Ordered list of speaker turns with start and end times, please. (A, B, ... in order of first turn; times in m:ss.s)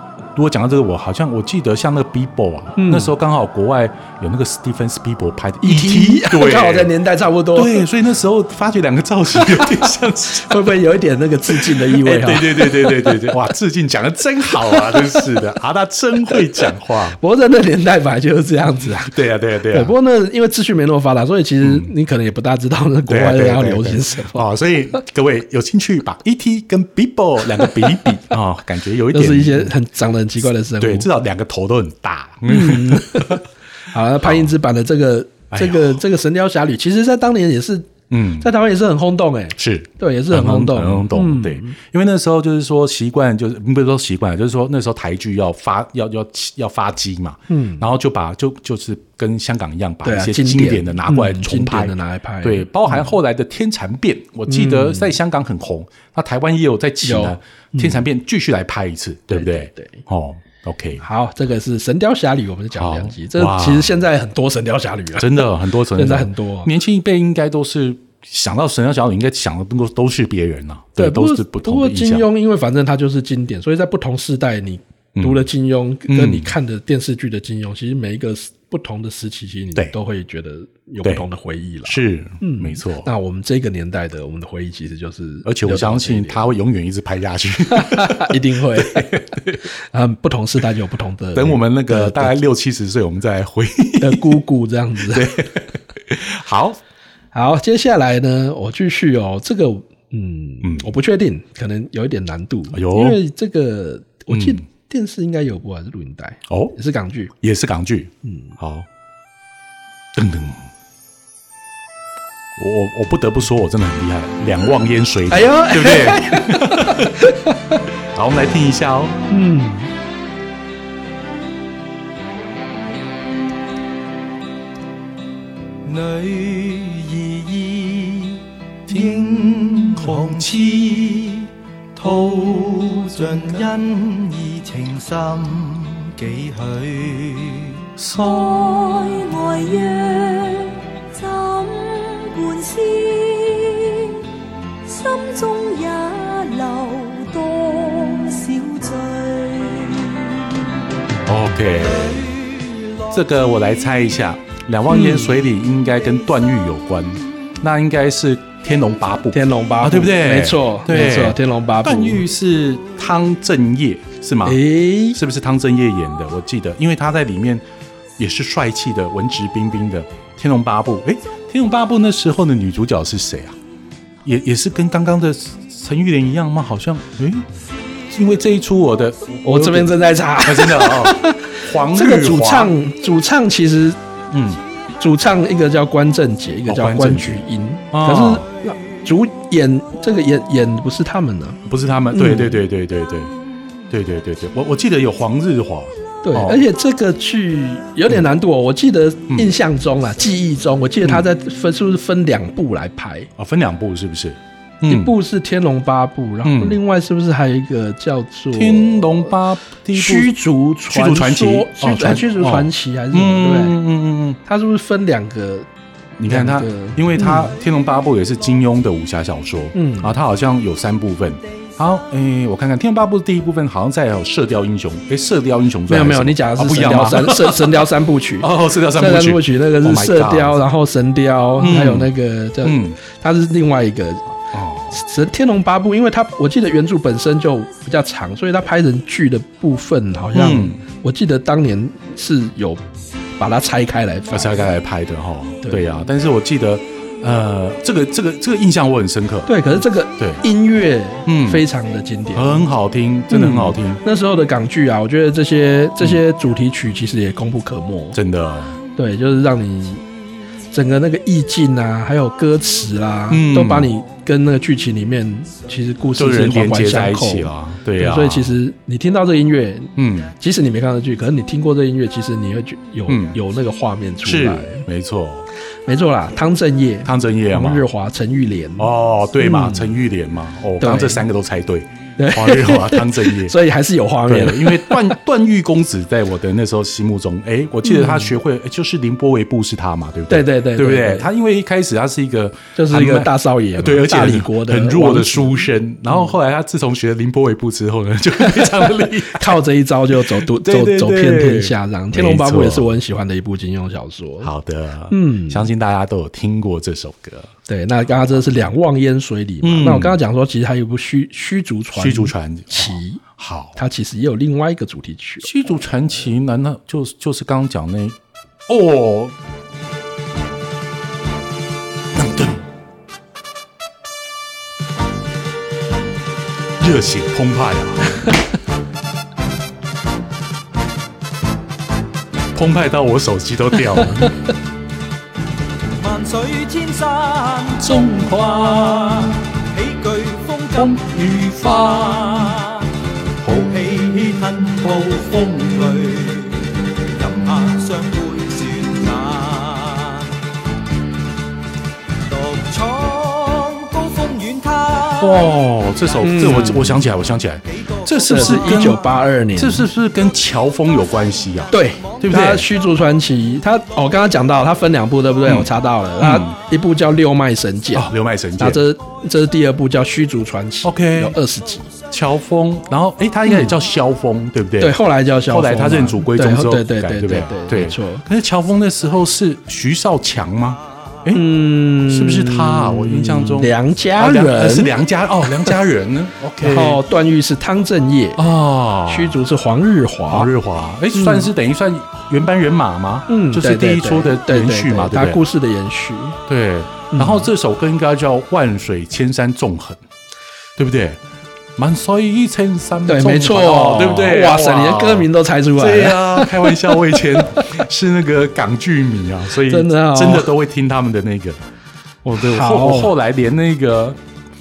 0:00.3-0:06.9 A
0:02.8-0:03.1 B
0:05.6-0:07.8 B
0:07.5-0:10.7 A
0:09.4-0:09.8 B
0:10.4-0:13.4 B
0:11.5-0:17.2 A
0:14.6-0:15.2 B
0:17.2-0:19.1 B
0:19.0-0:19.9 A
0:19.7-0:24.4 B
0:21.6-0:21.9 A
0:23.0-0:29.7 A
0:29.1-0:31.1 B
0:30.8-0:33.4 A
0:32.4-0:41.8 B
0:34.2-0:34.5 A
0:35.5-0:36.0 A
0:38.1-0:38.5 A
0:39.6-1:01.0 A
0:47.5-0:47.8 B
0:50.0-0:53.1 B
0:54.5-0:55.1 B
0:57.0-0:58.0 B
0:59.3-1:00.0 B
1:01.0-1:06.7 B
1:02.7-1:03.9 A
1:05.1-1:12.3 A
1:11.0-1:26.5 B
1:15.2-1:15.5 A
1:16.1-1:16.5 A
1:21.8-1:23.1 A
1:25.4-1:29.6 A
1:27.7-1:32.3 B
1:31.3-1:34.4 A
1:34.0-1:35.4 B
1:35.1-1:36.8 A
1:37.3-1:47.3 B
1:40.6-1:40.9 A
1:42.7-1:43.2 A
1:44.3-1:44.6 A
1:46.5-1:46.7 A
1:47.4-1:48.9 A
1:48.2-1:48.6 B
1:50.1-1:50.7 A
1:52.6-1:57.3 A
1:55.3-1:57.8 B
1:58.1-1:59.1 A
1:59.3-1:59.9 B
2:05.8-2:17.8 C
2:08.9-2:10.5 A
2:18.0-2:18.7 A
2:18.1-2:24.2 D
2:24.8-2:30.6 D
2:31.2-2:32.3 A
2:32.0-2:32.7 C
2:33.1-2:44.6 A
2:34.9-2:35.3 B
2:39.3-2:42.2 B
2:44.4-2:45.2 B
2:45.1-2:47.6 A
2:48.2-2:53.6 A
2:54.2-2:57.5 A
2:58.1-3:02.7 A
2:59.4-3:04.0 B
3:04.3-3:04.6 A
3:05.0-3:11.6 B
3:06.7-3:08.4 A
3:11.6-3:13.3 A
3:12.1-3:12.6 B
3:13.9-3:16.6 A
3:16.2-3:23.3 B
3:23.4-3:25.1 A
3:24.8-3:29.2 B
3:26.4-3:26.8 A
3:28.5-3:30.3 A
3:29.9-3:33.8 B
3:30.9-3:34.4 A
3:34.4-3:35.7 B
3:36.2-3:47.7 A
3:36.3-3:37.5 B
3:39.7-3:40.2 B
3:45.9-3:54.2 B
3:48.4-3:50.6 A
3:51.6-3:52.1 A
3:52.6-3:53.0 A
3:54.5-3:55.0 A
3:54.9-4:02.8 B
4:00.3-4:00.8 A
4:03.4-4:04.6 B
4:04.3-4:10.4 A
4:05.6-4:06.0 B
4:09.5-4:12.7 B
4:11.2-4:11.6 A
4:12.3-4:14.0 A
4:13.3-4:18.2 B
4:18.1-4:18.8 A
4:19.0-4:20.0 B
4:20.7-4:34.8 B
4:23.3-4:23.9 A
4:26.2-4:28.6 A
4:30.0-4:30.3 A
4:33.1-4:33.4 A
4:34.2-4:35.5 A
4:35.8-4:38.9 B
4:37.0-4:37.8 A
4:38.8-4:43.6 A
4:39.4-4:39.9 B
4:40.8-4:41.2 B
4:42.2-4:45.1 B
4:44.3-4:59.6 A
4:47.8-4:48.3 B
4:50.3-4:51.3 B
4:52.8-4:56.3 B
4:58.4-5:04.5 B
5:00.4-5:02.9 A
5:04.4-5:07.5 A
5:05.1-5:05.7 B
5:07.7-5:13.2 B
5:09.6-5:10.2 A
5:11.9-5:13.8 A
5:13.8-5:15.5 B
5:15.4-5:18.2 A
5:18.7-5:19.4 A
5:22.1-5:22.6 A
5:26.8-5:28.3 A
5:32.5-5:34.3 A
5:35.9-5:42.9 C
5:37.8-5:39.4 A
5:40.7-5:42.6 A
5:43.4-5:50.3 C
5:52.2-5:56.8 C
5:55.2-5:59.0 A
5:56.2-5:57.0 B
5:57.7-5:59.1 C
5:58.2-5:59.9 B
5:59.5-6:02.7 A
6:01.7-6:11.9 B
6:05.4-6:06.6 A
6:07.9-6:08.8 A
6:10.8-6:11.4 A
6:12.1-6:21.4 A
6:13.4-6:13.7 B
6:14.8-6:18.2 B
6:21.3-6:24.9 B
6:22.0-6:27.0 A
6:25.5-6:25.7 B
6:26.6-6:28.4 B
6:28.4-6:29.4 A
6:29.0-6:30.5 B
6:30.3-6:35.4 A
6:31.1-6:31.5 B
6:33.3-6:36.4 B
6:36.5-6:40.0 A
6:37.1-6:37.5 B
6:40.8-6:41.2 A
6:41.8-6:51.6 A
6:43.1-6:47.7 B
6:49.7-6:50.5 B
6:52.2-6:54.2 A
6:52.4-6:53.1 B